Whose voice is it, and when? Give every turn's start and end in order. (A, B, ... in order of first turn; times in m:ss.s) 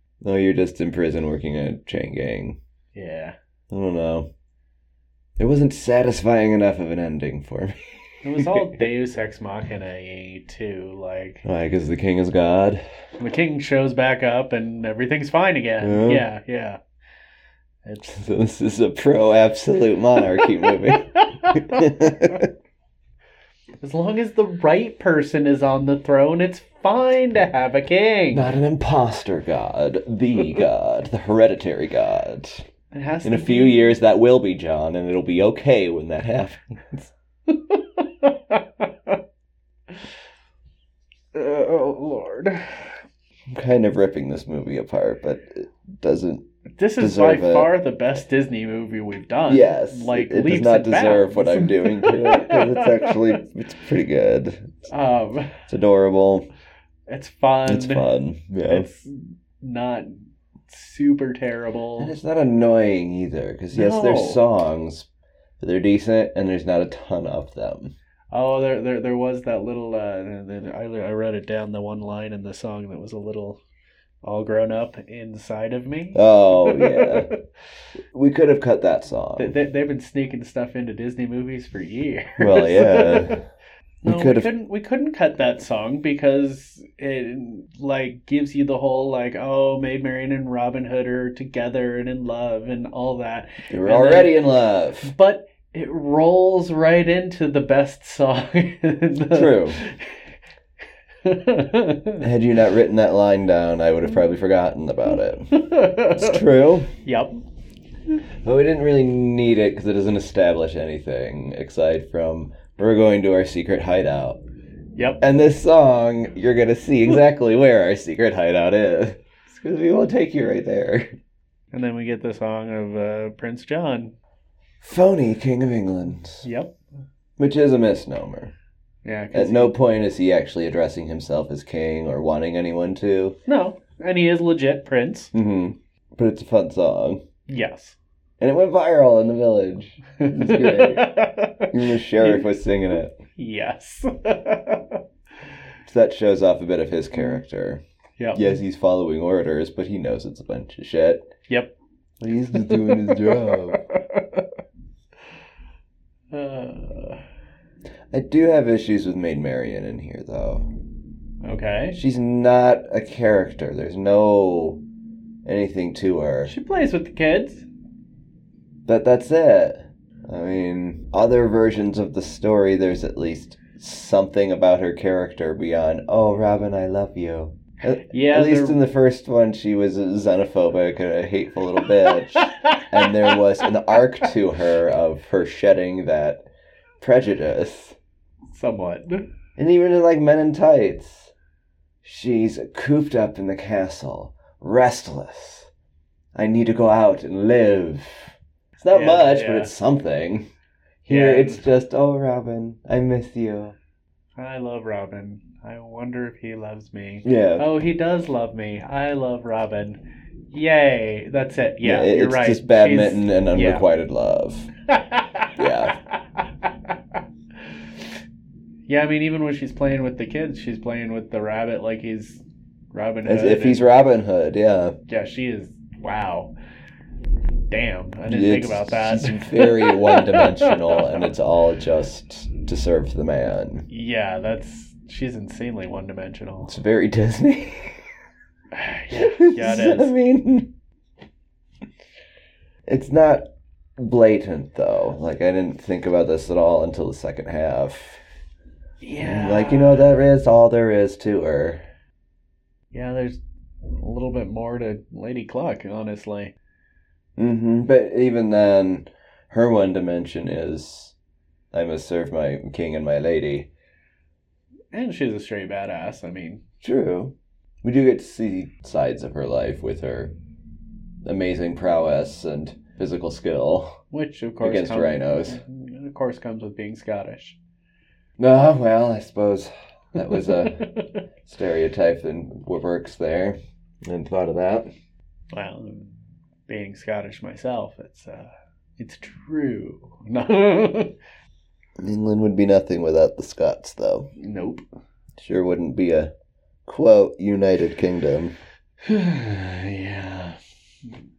0:00.2-0:02.6 A
0:02.9-0:03.4 B
0:03.7-0:04.3 A
0:05.4-0:07.8 A
0:08.2-0:11.4 B
0:08.4-0:08.9 A
0:11.4-0:12.8 A
0:13.2-0:16.8 B
0:15.8-0:16.3 A
0:17.8-0:18.2 B
0:18.1-0:22.5 A
0:20.4-0:22.4 B
0:23.8-0:28.5 B
0:28.3-0:32.7 A
0:32.9-0:34.0 B
0:33.2-0:37.1 A
0:37.5-0:39.2 B
0:41.3-0:43.0 B
0:43.5-0:46.4 A
0:46.8-0:53.4 B
0:47.0-0:47.7 A
0:49.5-0:54.7 A
0:54.9-0:55.6 B
0:55.7-0:56.5 A
0:57.1-0:58.1 B
0:57.7-0:58.9 A
0:58.6-1:02.1 B
1:02.0-1:05.1 A
1:03.7-1:04.4 B
1:05.6-1:07.9 A
1:08.3-1:13.6 B
1:14.2-1:17.4 B
1:16.1-1:17.3 A
1:18.1-1:19.6 A
1:19.4-1:23.4 B
1:22.4-1:23.4 A
1:24.0-1:34.4 B
1:24.0-1:24.5 A
1:33.7-1:35.1 A
1:35.0-1:40.3 B
1:39.3-1:39.8 A
1:41.2-1:42.2 B
1:42.2-1:46.9 A
1:45.5-1:46.4 B
1:47.0-1:47.4 B
1:48.4-1:54.4 A
1:55.0-1:55.2 B
1:55.2-2:01.1 A
2:01.7-2:04.1 B
2:04.8-2:06.4 A
2:06.4-2:06.7 B
2:07.4-2:08.5 A
2:09.0-2:09.8 B
2:09.3-2:13.4 A
2:13.5-2:15.3 B
2:15.3-2:17.2 A
2:17.5-2:18.0 B
2:18.4-2:21.1 A
2:20.2-2:22.5 B
2:21.7-2:23.2 A
2:23.4-2:25.0 B
2:25.9-2:31.3 A
2:28.2-2:28.6 B
2:31.5-2:31.7 B
2:32.2-2:33.8 A
2:32.6-2:34.5 B
2:36.3-2:37.2 B
2:38.1-2:40.7 A
2:41.4-2:42.0 B
2:41.9-2:44.8 A
2:45.4-2:46.5 A
2:46.5-2:47.7 B
2:48.9-3:06.4 A
2:57.9-2:58.8 B
3:02.3-3:03.4 B
3:07.0-3:08.0 A
3:08.5-3:09.3 B
3:09.6-3:11.3 A
3:12.0-3:15.7 A
3:16.4-3:20.4 A
3:18.9-3:19.7 B
3:21.0-3:23.8 A
3:21.1-3:21.7 B
3:24.4-3:33.8 B
3:27.2-3:27.7 A
3:31.8-3:34.7 A
3:34.9-3:37.2 B
3:35.6-3:36.0 A
3:38.9-3:42.4 B
3:42.9-3:43.8 B
3:43.2-3:45.0 A
3:45.1-3:46.5 B
3:47.7-3:51.2 B
3:48.3-3:53.9 A
3:53.9-3:56.8 B
3:56.6-3:58.1 A
3:58.7-4:00.1 B
3:59.1-4:00.7 A
4:02.9-4:03.5 A
4:04.0-4:08.2 A
4:09.0-4:10.1 B
4:09.2-4:11.8 A
4:12.9-4:13.4 B
4:13.9-4:16.5 B
4:17.4-4:21.2 A
4:21.7-4:23.7 A
4:24.9-4:26.6 B
4:26.8-4:30.3 A
4:31.2-4:34.0 A
4:34.1-4:37.6 B
4:34.6-4:35.6 A
4:38.4-4:40.8 A
4:40.2-4:41.2 B
4:41.5-4:44.9 A
4:45.5-4:46.2 B
4:46.7-4:51.1 B
4:52.0-4:54.3 A
4:54.4-4:54.8 B
4:55.4-4:56.3 A
4:56.9-4:58.6 A
4:59.0-5:00.6 B